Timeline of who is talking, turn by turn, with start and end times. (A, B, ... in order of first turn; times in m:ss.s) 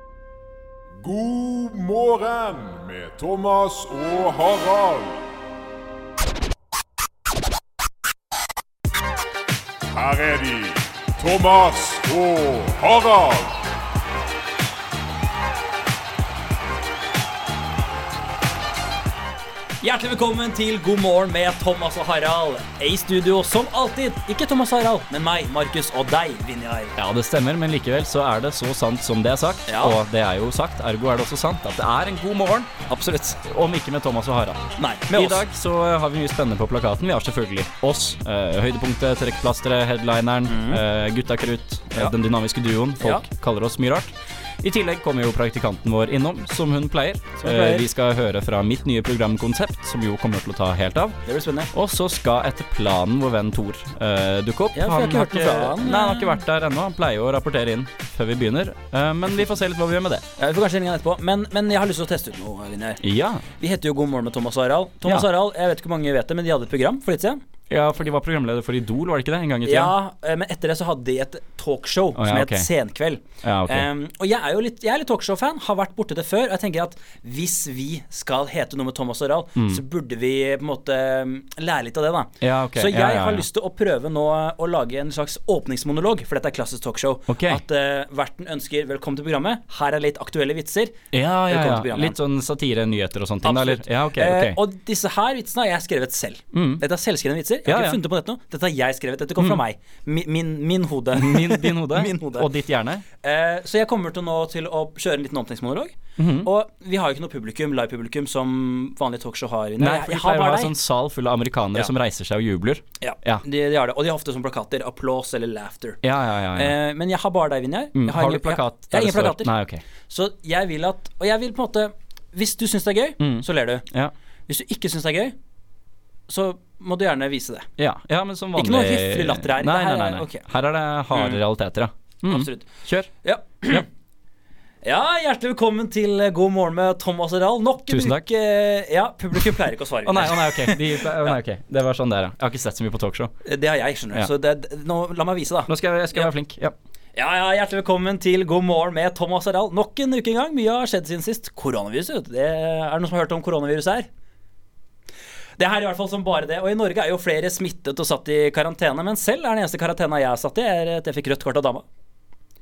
0:01.0-0:05.2 A
0:09.9-0:13.6 A
0:19.8-0:26.9 B
0:27.0-0:32.7 C
0:29.7-0:30.0 B
0:32.9-0:33.4 B
0:33.5-0:51.2 C
0:34.8-0:35.4 B
0:40.5-0:40.8 B
0:47.4-0:47.8 B
0:51.2-0:51.7 B
0:51.7-1:00.2 C
0:54.7-0:56.4 B
1:00.4-1:03.0 B
1:03.0-1:03.4 C
1:03.6-1:07.4 B
1:07.7-1:09.9 C
1:09.6-1:32.2 B
1:12.2-1:12.7 C
1:13.4-1:13.9 C
1:19.6-1:19.8 C
1:22.4-1:23.4 C
1:27.3-1:27.6 C
1:31.1-1:34.6 C
1:33.4-1:42.5 B
1:36.5-1:36.8 C
1:37.6-1:38.0 C
1:41.1-1:43.0 C
1:43.2-1:50.8 B
1:46.2-1:46.5 C
1:49.8-1:53.4 C
1:53.0-1:56.0 B
1:56.0-1:56.7 C
1:56.5-1:59.5 B
1:57.9-1:59.8 C
2:00.1-2:03.8 B
2:03.2-2:04.1 C
2:04.5-2:05.3 B
2:06.3-2:07.7 B
2:07.8-2:13.1 C
2:08.5-2:10.4 B
2:11.1-2:11.4 B
2:12.3-2:12.7 B
2:13.2-2:13.8 B
2:14.8-2:20.8 B
2:17.9-2:18.3 C
2:20.0-2:23.3 C
2:23.4-2:26.3 B
2:25.7-2:26.7 C
2:27.1-2:34.1 B
2:35.6-2:41.8 B